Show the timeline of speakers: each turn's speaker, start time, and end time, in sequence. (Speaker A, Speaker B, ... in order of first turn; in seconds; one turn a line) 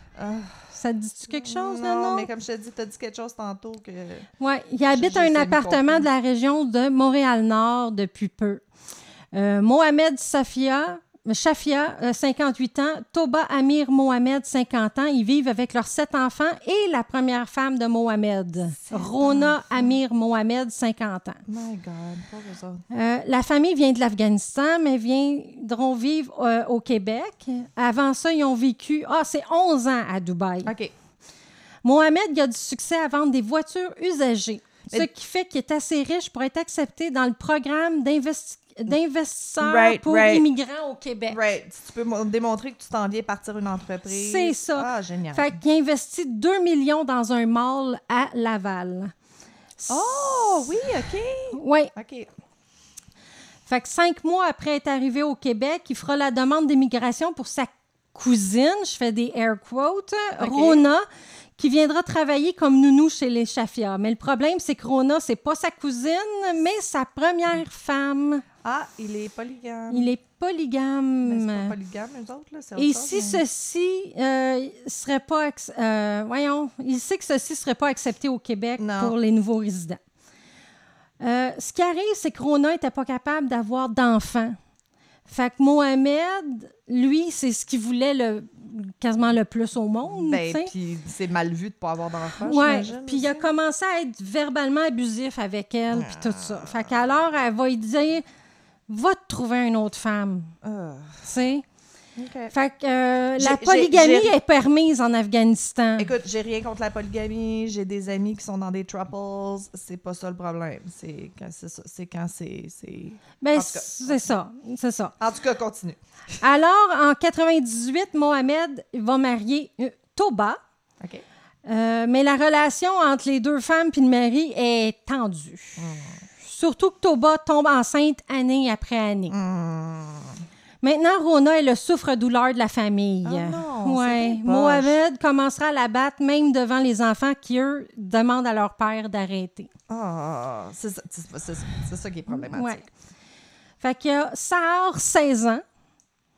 Speaker A: 0.1-0.7
Speaker B: 0.7-2.3
Speaker A: 1.3-4.3
Speaker B: 4.4-8.6
Speaker A: 4.9-6.1
Speaker B: 9.3-21.4
Speaker A: 18.8-19.9
Speaker A: 21.5-22.8
Speaker B: 22.9-30.7
Speaker A: 30.6-30.9
Speaker B: 31.8-41.4
Speaker A: 39.6-40.5
Speaker A: 41.3-45.6
Speaker B: 44.1-49.1
Speaker B: 49.8-50.8
Speaker A: 49.9-52.3
Speaker B: 51.5-51.9
Speaker B: 53.7-61.0
Speaker A: 60.3-60.8
Speaker B: 61.6-68.4
Speaker A: 68.6-70.1
Speaker B: 69.9-71.7
Speaker A: 71.2-73.4
Speaker B: 72.8-80.0
Speaker A: 78.8-79.2
Speaker B: 81.2-84.6
Speaker B: 85.3-90.7
Speaker A: 90.1-93.5
Speaker B: 92.4-98.2
Speaker A: 95.9-96.9
Speaker B: 98.9-100.5
Speaker A: 100.6-101.3
Speaker B: 101.2-101.6
Speaker A: 102.2-102.5
Speaker B: 102.5-106.1
Speaker A: 103.4-104.3
Speaker A: 106.0-114.4
Speaker B: 113.4-115.1
Speaker A: 115.2-116.0
Speaker B: 116.4-120.6
Speaker B: 121.7-125.8
Speaker A: 125.8-126.2
Speaker B: 126.4-129.3
Speaker A: 129.3-130.4
Speaker B: 130.8-139.7
Speaker A: 133.2-135.0
Speaker A: 139.9-142.8
Speaker B: 142.3-142.9
Speaker B: 143.8-145.6